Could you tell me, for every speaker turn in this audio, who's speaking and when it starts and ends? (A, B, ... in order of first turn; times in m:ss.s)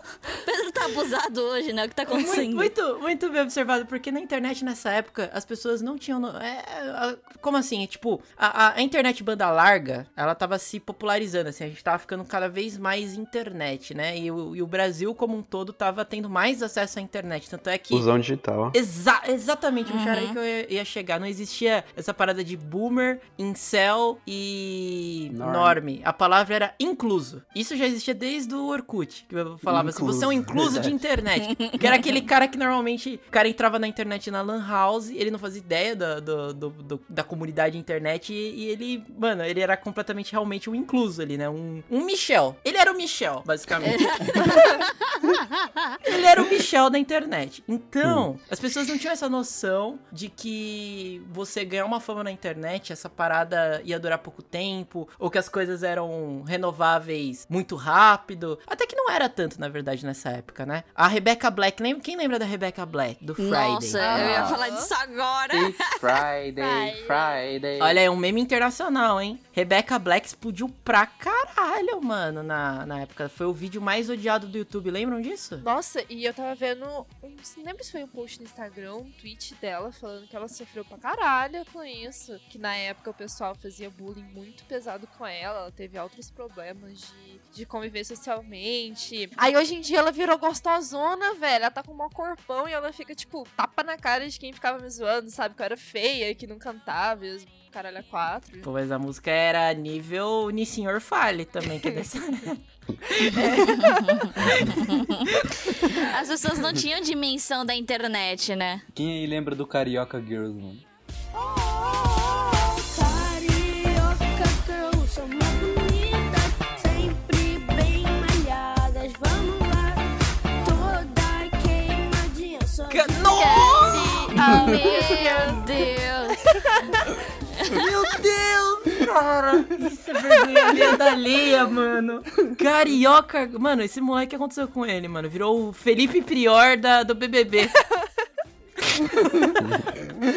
0:00.4-0:02.7 A
0:02.1-0:18.1 B
0:17.9-0:18.8 C
0:18.7-0:44.6 B
0:19.9-0:20.4 A
0:25.3-0:25.8 C
0:29.7-0:30.8 D
0:29.9-0:30.9 C
0:43.8-0:45.9 A
0:46.0-1:04.4 B
1:03.4-1:06.1 A
1:04.0-1:04.9 E
1:04.0-1:04.6 D
1:05.5-1:08.0 D
1:06.6-1:07.4 E
1:07.8-1:15.6 B
1:15.6-1:38.7 E
1:38.6-1:42.6 B
1:43.1-1:43.7 B
1:43.3-1:44.2 E
1:43.7-1:48.8 A
1:44.4-1:44.7 B
1:44.4-1:44.7 C
1:45.3-1:45.8 B
1:48.9-1:50.8 D
1:51.3-2:00.0 F
2:00.6-2:04.2 F
2:02.9-2:04.8 B
2:03.3-2:05.6 E
2:04.4-2:04.8 D
2:04.4-2:06.4 A
2:07.6-2:07.9 A
2:07.7-2:17.8 B
2:18.9-2:19.7 B
2:19.6-2:19.8 C